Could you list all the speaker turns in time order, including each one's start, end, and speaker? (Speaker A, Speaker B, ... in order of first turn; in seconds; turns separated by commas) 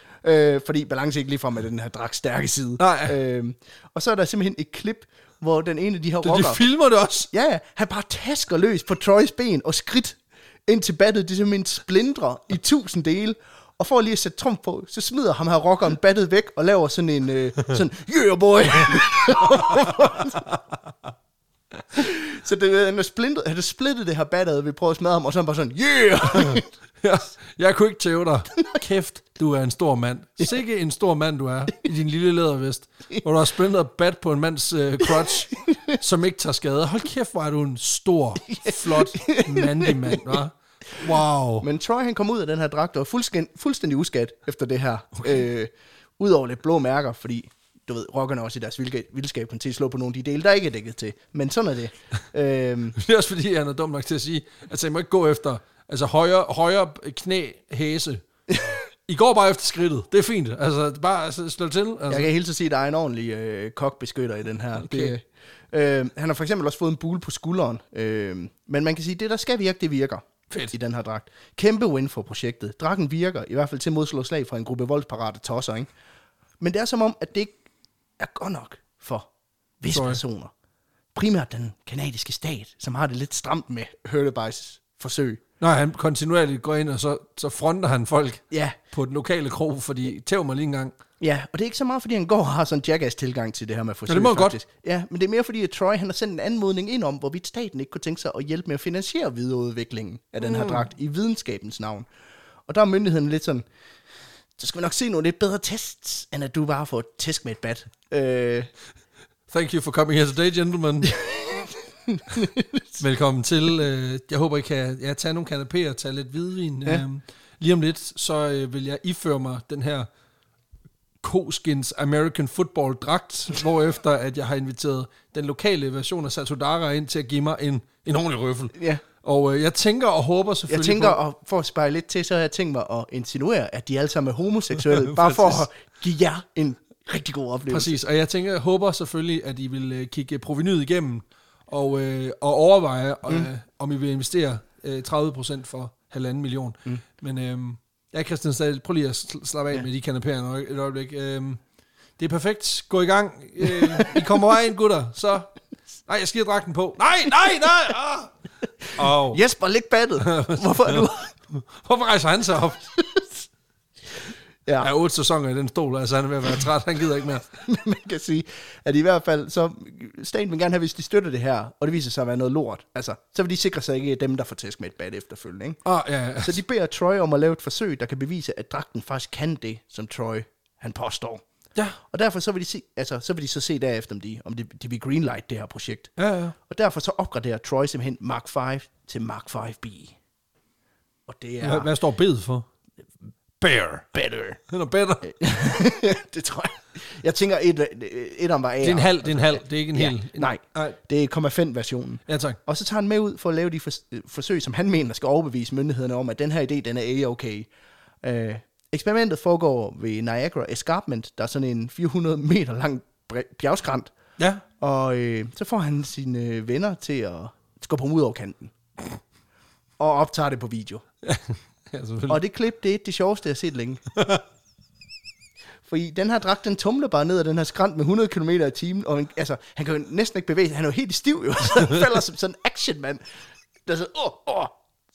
Speaker A: 0.2-6.6, Speaker B: 2.8-3.2, Speaker B: 6.2-7.3, Speaker A: 7.3-20.5, Speaker B: 19.7-20.2, Speaker A: 21.9-26.7, Speaker B: 26.3-41.6, Speaker A: 35.2-36.0, Speaker A: 38.5-40.4, Speaker A: 41.6-53.0, Speaker B: 45.1-45.4, Speaker B: 53.0-58.2, Speaker A: 58.5-58.8, Speaker B: 59.1-62.3, Speaker A: 62.1-75.9, Speaker B: 64.8-65.1, Speaker A: 76.6-77.6, Speaker A: 78.2-79.3, Speaker A: 79.8-80.5, Speaker B: 79.9-80.2, Speaker A: 81.1-85.4, Speaker B: 85.6-90.9, Speaker A: 88.5-88.8, Speaker A: 91.2-102.1, Speaker B: 94.1-94.6, Speaker B: 100.4-100.8, Speaker A: 102.7-103.6, Speaker A: 104.6-108.7, Speaker B: 109.5-111.2, Speaker A: 111.1-113.0, Speaker B: 113.0-120.1, Speaker B: 121.2-131.2, Speaker A: 128.8-129.0, Speaker A: 130.7-137.9, Speaker B: 134.8-135.6, Speaker B: 137.7-151.6, Speaker B: 152.2-155.5, Speaker A: 153.6-154.4, Speaker B: 156.1-158.3, Speaker B: 158.9-159.4, Speaker A: 159.0-161.3, Speaker B: 160.2-162.9, Speaker A: 162.9-163.4, Speaker B: 164.8-167.6, Speaker A: 167.6-175.8, Speaker B: 175.8-176.6, Speaker A: 176.4-181.4, Speaker A: 182.1-186.1, Speaker B: 186.2-186.5, Speaker A: 186.7-190.2, Speaker A: 191.3-191.9, Speaker B: 191.6-192.7, Speaker B: 193.6-194.1, Speaker A: 194.1-194.6, Speaker B: 194.7-195.3, Speaker A: 195.2-207.7, Speaker B: 198.8-201.0, Speaker B: 202.3-202.6, Speaker A: 208.2-214.1, Speaker B: 214.4-214.6, Speaker A: 214.8-218.7, Speaker A: 220.0-221.0, Speaker B: 221.2-222.4, Speaker A: 222.3-224.0, Speaker B: 224.1-224.4, Speaker A: 225.8-233.2, Speaker A: 233.8-234.7